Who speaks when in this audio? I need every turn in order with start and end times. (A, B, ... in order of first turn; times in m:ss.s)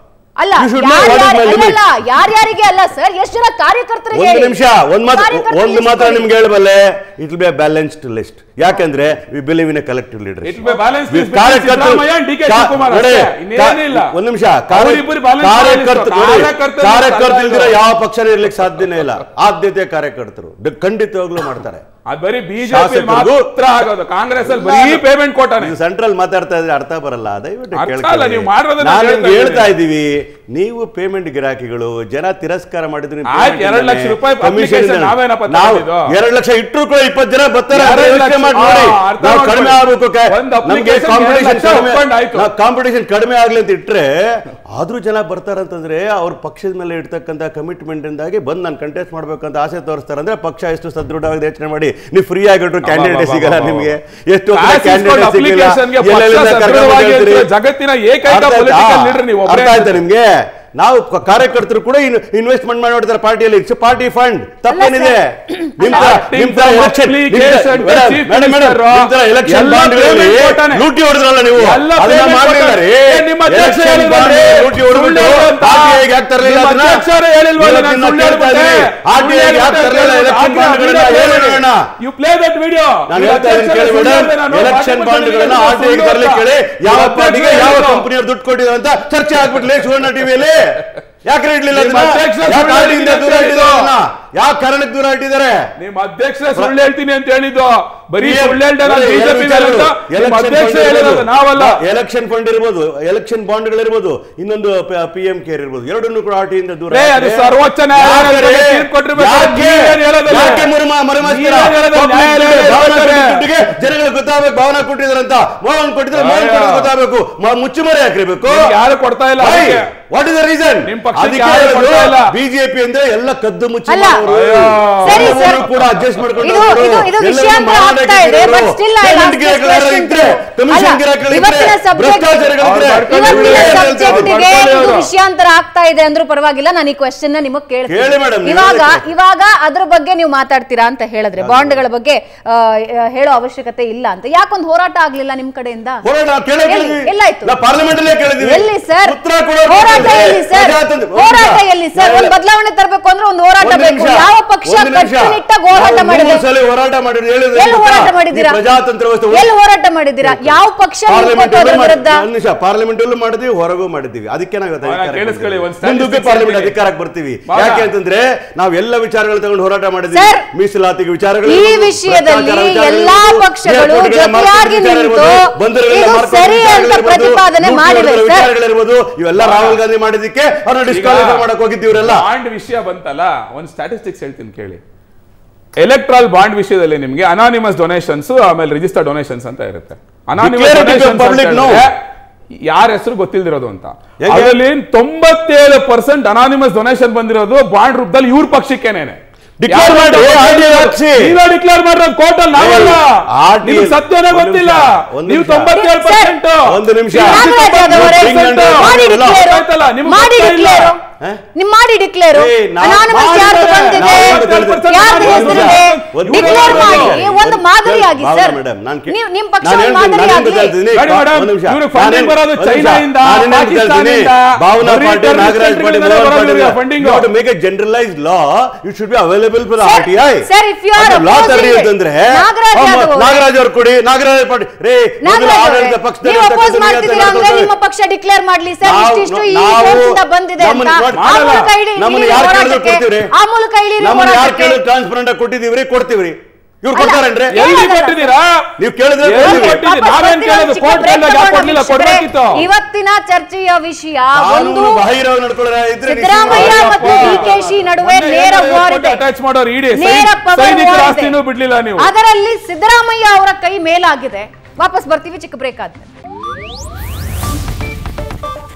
0:00.4-0:04.6 A
0:00.6-0:01.8 B
0:04.1-0:21.8 B
0:05.1-0:06.3 A
0:10.4-0:14.1 C
0:14.7-0:17.8 C
0:22.1-0:25.8 C
0:22.6-0:23.5 B
0:24.4-0:25.0 B
0:25.6-0:57.5 B
0:27.8-0:29.7 C
0:33.3-0:36.1 C
0:37.7-0:42.5 C
0:52.8-0:53.9 C
0:54.5-1:00.0 C
0:58.2-1:17.1 B
1:04.7-1:06.1 A
1:05.8-1:10.9 C
1:11.6-1:28.1 C
1:17.6-1:21.8 B
1:23.1-1:35.7 B
1:31.7-1:34.0 C
1:35.8-1:41.8 C
1:38.2-1:58.7 B
1:46.9-1:53.6 C
1:56.1-1:56.9 C
1:58.5-1:59.9 C
1:59.4-2:14.6 B
2:00.8-2:02.4 C
2:03.9-2:04.2 A
2:04.2-2:06.4 C
2:05.0-2:05.6 A
2:06.4-2:12.5 A
2:12.6-2:15.1 C
2:13.1-2:26.0 A
2:17.9-2:19.0 B
2:21.4-2:21.8 B
2:26.0-2:32.3 B
2:26.6-2:27.6 A
2:28.4-2:36.4 A
2:33.6-2:39.5 B
2:37.6-2:38.6 A
2:39.3-2:42.2 A
2:40.2-3:02.2 B
2:44.8-2:46.8 C
2:47.5-2:47.9 C
2:50.1-2:50.4 A
2:51.5-2:58.5 A
2:59.4-2:59.8 C
3:00.9-3:04.8 C
3:05.8-3:12.0 C
3:10.4-3:11.8 B
3:12.7-3:23.1 C
3:14.2-3:14.6 B
3:19.6-3:21.3 B
3:22.6-3:25.7 B
3:23.6-3:30.9 C
3:25.7-3:26.4 A
3:26.6-3:29.4 B
3:27.2-3:31.0 A
3:31.6-3:38.6 A
3:32.3-3:57.7 B
3:33.1-3:37.2 C
3:39.1-3:40.8 A
3:40.9-3:47.3 C
3:49.8-3:53.4 A
3:55.2-4:04.8 A
3:58.8-4:03.3 B
4:01.1-4:01.7 C
4:04.0-4:07.7 B
4:06.9-4:08.3 A
4:07.5-4:08.7 C
4:08.8-4:09.8 B
4:09.2-4:12.7 C
4:09.4-4:15.1 A
4:14.4-4:17.7 B
4:16.1-4:19.2 A
4:16.5-4:22.1 C
4:20.0-4:21.4 A
4:22.0-4:26.1 A